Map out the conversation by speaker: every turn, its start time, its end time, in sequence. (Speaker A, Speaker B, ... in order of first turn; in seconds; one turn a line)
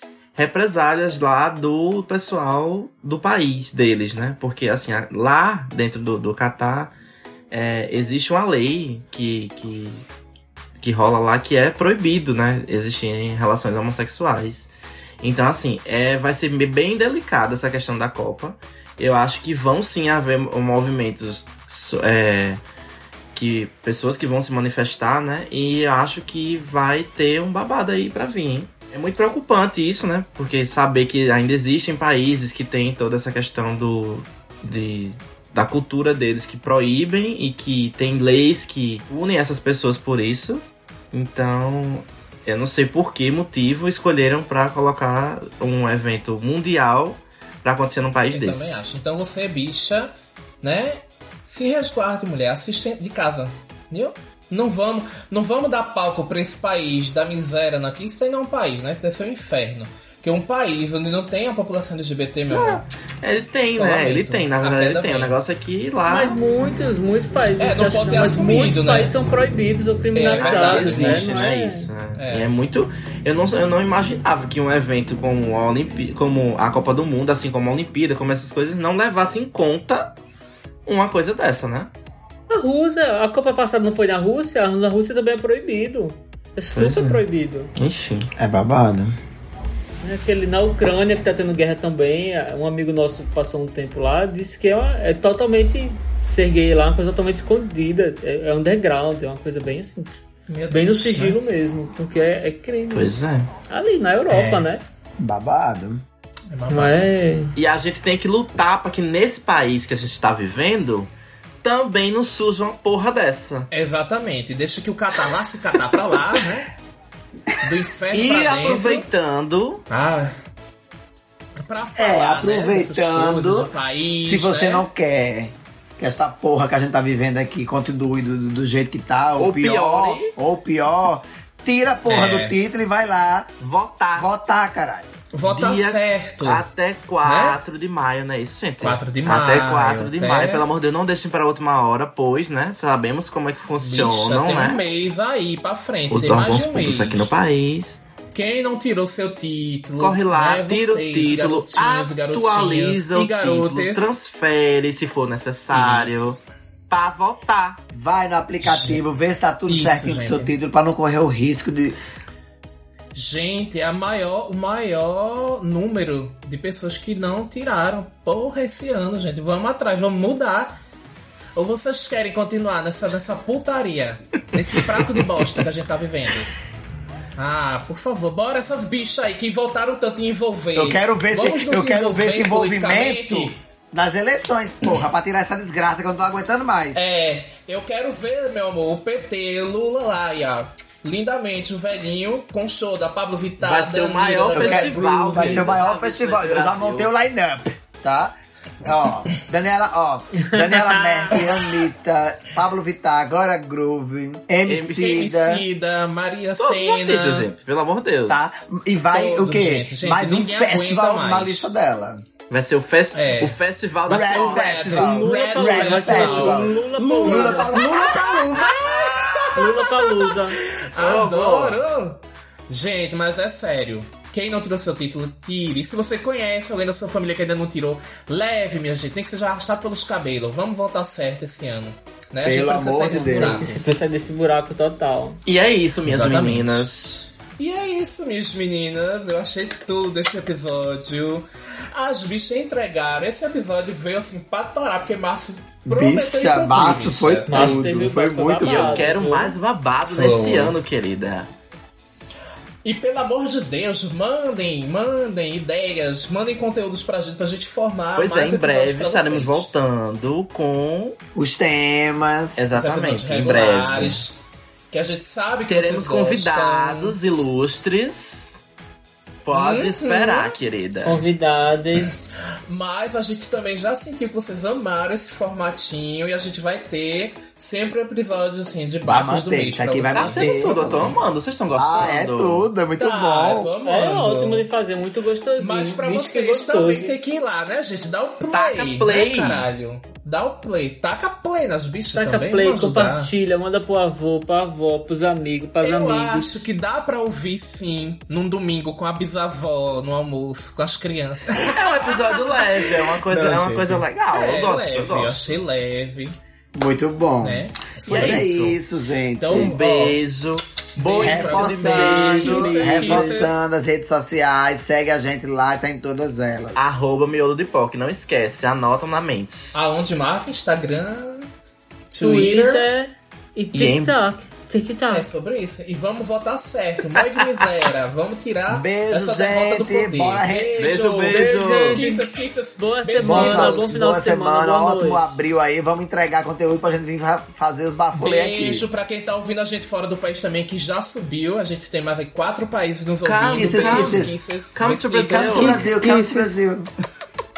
Speaker A: 0.3-6.9
Speaker A: 7.5-10.0
Speaker A: 10.8-22.6
Speaker A: 23.3-48.8
Speaker B: 48.3-62.9
Speaker A: 62.5-66.4
Speaker B: 63.7-65.4
Speaker C: 66.1-71.9
Speaker B: 67.6-69.1
Speaker B: 70.1-71.6
Speaker A: 70.4-80.1
Speaker B: 72.2-72.5
Speaker A: 80.8-81.9
Speaker C: 82.5-87.7
Speaker A: 86.8-87.2
Speaker A: 87.8-88.3
Speaker D: 88.4-89.2
Speaker C: 90.0-103.1
Speaker B: 100.5-101.5
Speaker A: 102.9-103.5
Speaker C: 103.7-104.8
Speaker B: 104.3-104.7
Speaker D: 105.2-106.0
Speaker B: 106.5-107.0
Speaker C: 106.7-107.5
Speaker A: 107.5-111.1
Speaker A: 111.6-113.7
Speaker B: 113.7-116.7
Speaker B: 117.6-119.1
Speaker A: 118.1-119.8
Speaker B: 119.9-120.4
Speaker B: 121.6-124.9
Speaker D: 122.0-133.5
Speaker A: 129.4-130.3
Speaker B: 132.1-132.6
Speaker A: 133.6-134.3
Speaker D: 134.1-135.1
Speaker B: 135.3-136.6
Speaker A: 135.4-144.8
Speaker B: 137.2-137.6
Speaker B: 138.8-140.7
Speaker B: 143.8-147.3
Speaker A: 146.1-148.0
Speaker B: 148.3-154.2
Speaker A: 150.0-157.8
Speaker B: 155.7-156.3
Speaker D: 157.9-162.0
Speaker B: 158.6-159.0
Speaker B: 159.7-160.5
Speaker B: 163.1-170.7
Speaker B: 171.6-176.5
Speaker B: 177.4-183.6
Speaker D: 180.7-187.1
Speaker B: 186.9-195.9
Speaker A: 193.6-197.1
Speaker D: 194.5-205.6
Speaker C: 200.4-201.4
Speaker B: 201.3-201.6
Speaker A: 204.6-205.3
Speaker B: 204.9-207.5
Speaker A: 206.6-208.6
Speaker D: 208.3-212.2
Speaker B: 209.1-211.7
Speaker A: 212.5-214.9
Speaker B: 213.1-233.9
Speaker D: 214.1-219.1
Speaker C: 214.8-218.0
Speaker C: 219.5-220.6
Speaker A: 220.9-221.8
Speaker D: 232.4-233.8
Speaker C: 233.2-235.4
Speaker A: 233.7-234.0
Speaker A: 235.4-237.3
Speaker B: 236.0-236.9
Speaker B: 237.6-248.0
Speaker D: 245.8-249.1
Speaker C: 247.5-249.6
Speaker A: 248.6-251.5
Speaker B: 250.0-250.8
Speaker B: 252.8-259.7
Speaker A: 258.1-261.2
Speaker D: 261.3-262.7
Speaker A: 262.6-264.2
Speaker B: 262.7-264.4
Speaker B: 264.9-267.2
Speaker A: 265.7-268.6
Speaker A: 269.4-271.2
Speaker B: 269.5-270.6
Speaker C: 271.0-272.2
Speaker B: 272.6-281.1
Speaker D: 279.0-281.2
Speaker A: 280.1-282.7
Speaker D: 281.8-283.7
Speaker B: 283.0-284.6
Speaker C: 283.8-287.1
Speaker B: 285.6-293.3
Speaker A: 288.5-289.7
Speaker C: 292.1-296.5
Speaker B: 295.8-306.4
Speaker A: 301.6-305.6
Speaker D: 306.7-309.8
Speaker B: 307.4-308.6
Speaker A: 308.1-308.8
Speaker B: 309.4-310.2
Speaker A: 309.4-313.3
Speaker B: 310.9-313.6
Speaker D: 311.2-316.9
Speaker C: 311.6-313.1
Speaker A: 316.8-319.8
Speaker B: 319.7-321.5
Speaker B: 322.1-322.9
Speaker C: 322.2-325.3
Speaker A: 323.7-324.2
Speaker B: 325.1-334.0
Speaker D: 328.7-330.7
Speaker A: 330.8-332.0
Speaker C: 331.3-335.4
Speaker D: 333.2-338.9
Speaker B: 338.1-345.8
Speaker A: 343.2-345.8
Speaker D: 343.5-344.4
Speaker D: 345.3-346.9
Speaker C: 345.5-346.6